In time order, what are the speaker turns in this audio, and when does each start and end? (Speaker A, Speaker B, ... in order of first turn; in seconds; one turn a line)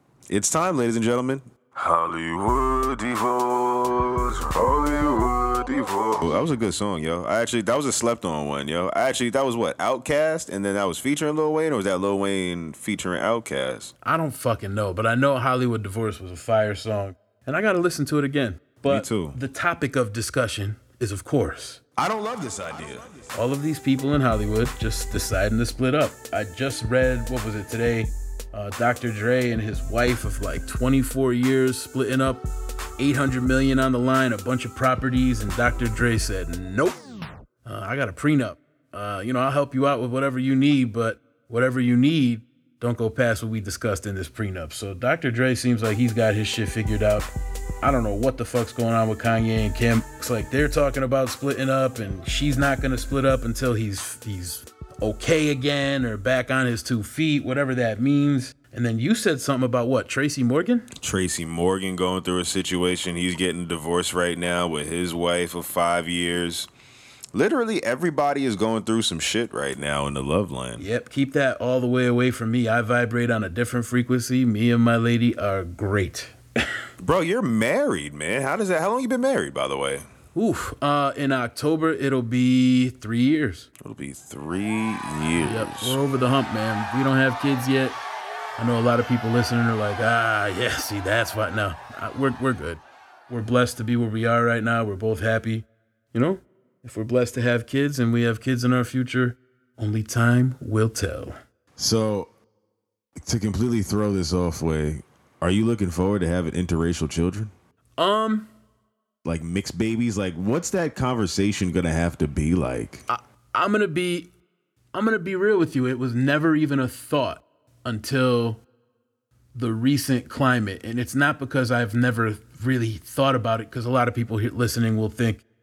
Speaker A: 0.3-13.9
Speaker B: 14.0-21.8
Speaker A: 18.9-19.4
Speaker A: 22.0-23.1
Speaker B: 23.3-32.5
Speaker B: 33.0-37.0
Speaker B: 37.6-47.3
Speaker B: 47.8-60.9
Speaker A: 61.0-66.7
Speaker A: 67.3-70.8
Speaker B: 70.8-76.4
Speaker A: 77.0-80.1
Speaker B: 80.3-83.7
Speaker A: 83.8-86.0
Speaker B: 85.4-88.0
Speaker B: 88.6-101.3
Speaker A: 101.8-102.3
Speaker A: 103.2-107.5
Speaker B: 108.0-108.5
Speaker A: 109.2-113.0
Speaker B: 113.1-114.3
Speaker B: 114.9-118.6
Speaker B: 119.5-125.4